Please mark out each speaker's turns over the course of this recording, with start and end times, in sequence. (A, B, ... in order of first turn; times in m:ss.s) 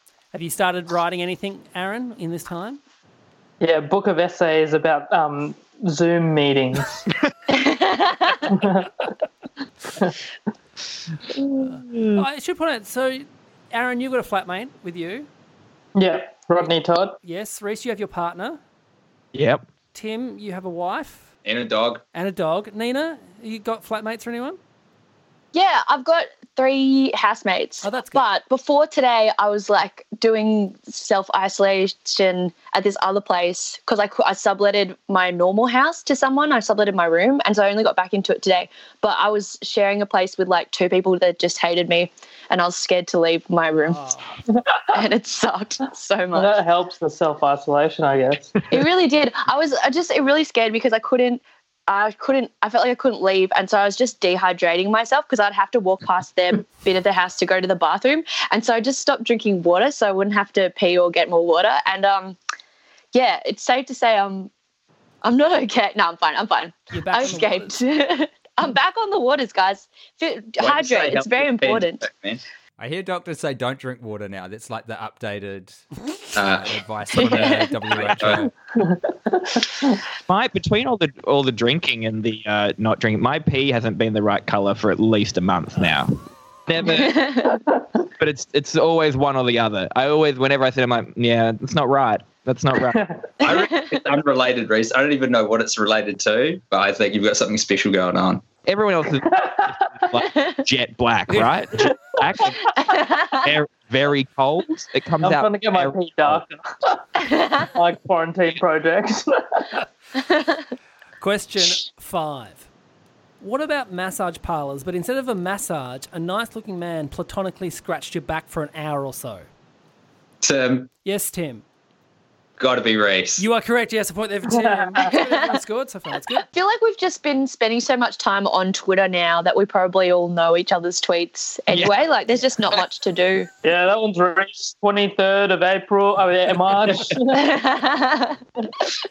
0:00.3-0:02.8 A
0:03.6-0:07.1 B
0:07.5-0:08.4 C
0:08.5-0:09.0 B
0:11.7-0:15.3 A
0:11.9-0:12.2 D
0:16.0-0:17.2 B
0:17.2-0:18.6 A
0:19.3-0:19.6 D
0:19.9-0:21.3 A
0:21.4-0:22.0 E
0:22.1-0:24.6 A
0:25.5-0:44.0 C
0:27.8-0:28.2 A
0:43.9-0:44.4 A
0:44.9-0:46.6 C
0:46.3-0:48.6 B
0:48.7-1:02.4 C
1:03.1-1:04.5 C
1:05.2-1:12.0 C
1:06.9-1:07.7 A
1:10.6-1:12.4 E
1:12.8-1:15.8 F
1:16.3-1:18.4 E
1:16.7-1:18.5 F
1:17.2-1:17.8 C
1:18.8-1:20.0 B
1:20.3-1:26.2 D
1:26.7-1:27.3 D
1:26.8-1:27.6 C
1:28.2-1:33.0 D
1:32.8-1:33.3 B
1:33.4-1:38.4 E
1:33.4-1:33.9 C
1:38.6-1:42.6 D
1:39.2-1:39.7 B
1:41.9-1:42.3 B
1:42.8-1:43.5 C
1:43.4-1:46.4 D
1:45.2-1:47.0 B
1:47.7-1:49.6 B
1:50.3-1:50.6 C
1:51.2-1:52.7 A
1:53.4-1:59.4 A
2:00.4-2:00.9 E
2:01.0-2:01.6 A
2:02.6-2:03.4 E
2:03.4-2:06.4 A
2:04.4-2:05.1 B
2:06.4-2:13.5 C
2:13.6-2:17.5 B
2:17.3-2:18.4 C